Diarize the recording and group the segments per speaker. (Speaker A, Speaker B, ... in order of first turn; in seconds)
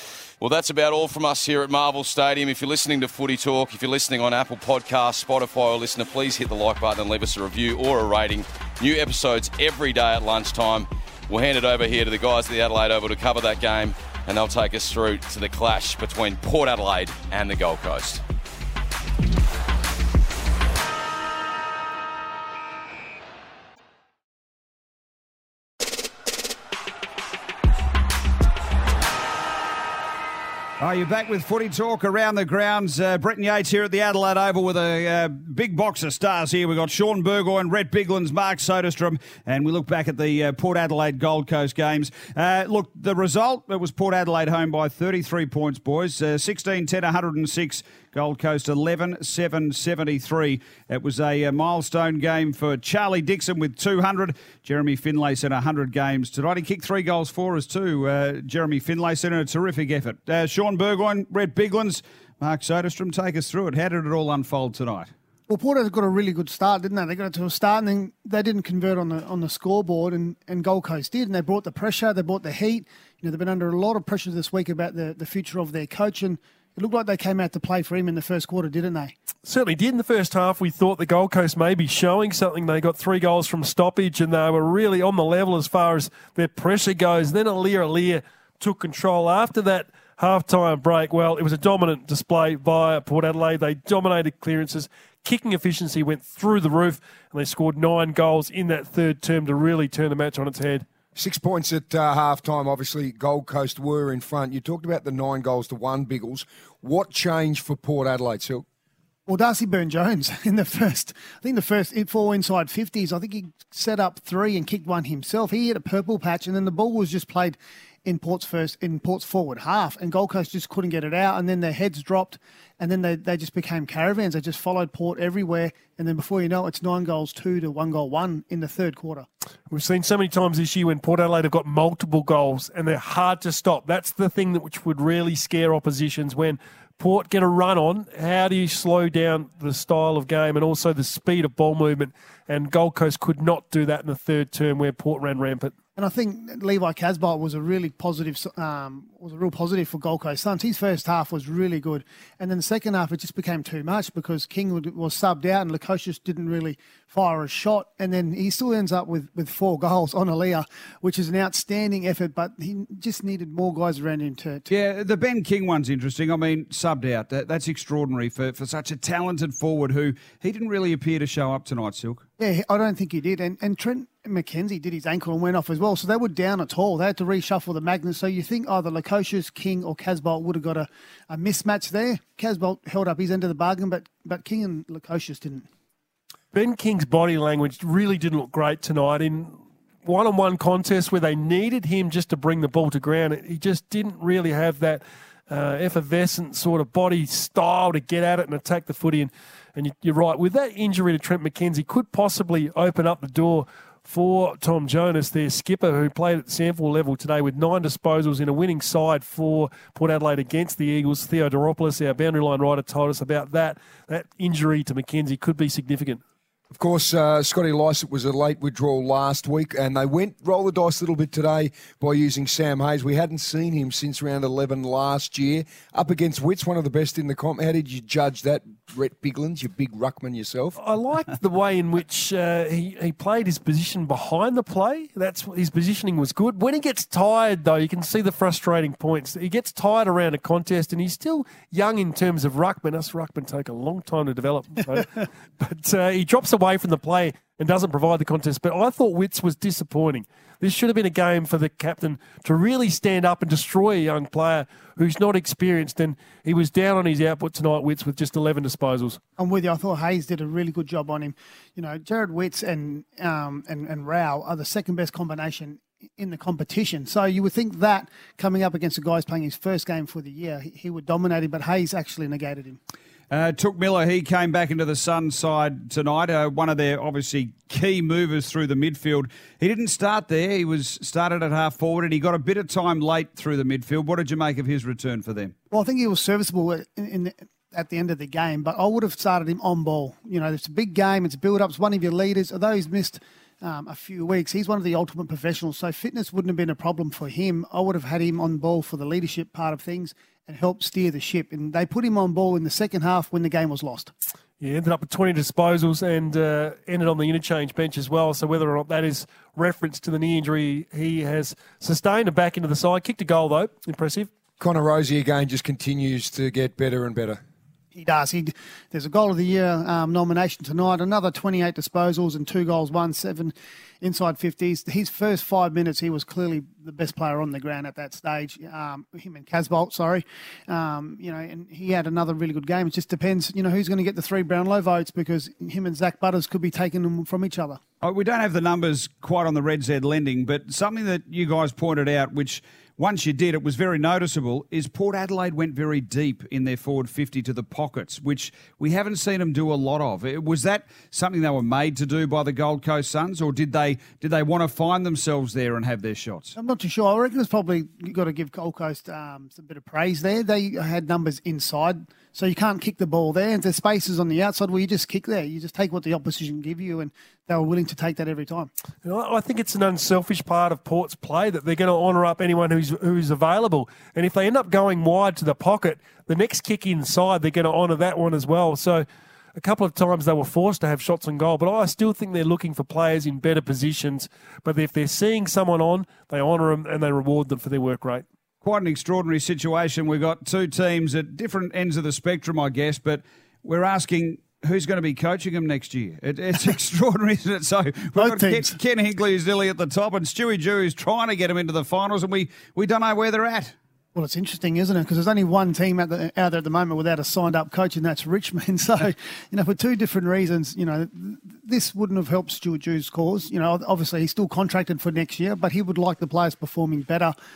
Speaker A: 0.4-18.2
Speaker B: 30.8-65.1, 164.7-172.2, 273.3-285.5, 338.0-356.5, 388.6-403.7
Speaker C: 65.5-79.1, 109.3-129.3, 145.9-164.7, 172.4-185.7, 259.4-272.8, 285.7-304.1, 317.9-337.8, 356.6-368.7, 398.2-398.7, 404.1-417.3
Speaker D: 79.4-100.8, 129.7-145.7, 186.5-216.2, 230.8-259.2, 304.6-314.3, 369.0-388.2
Speaker E: 101.1-108.6, 216.7-230.8, 314.6-317.4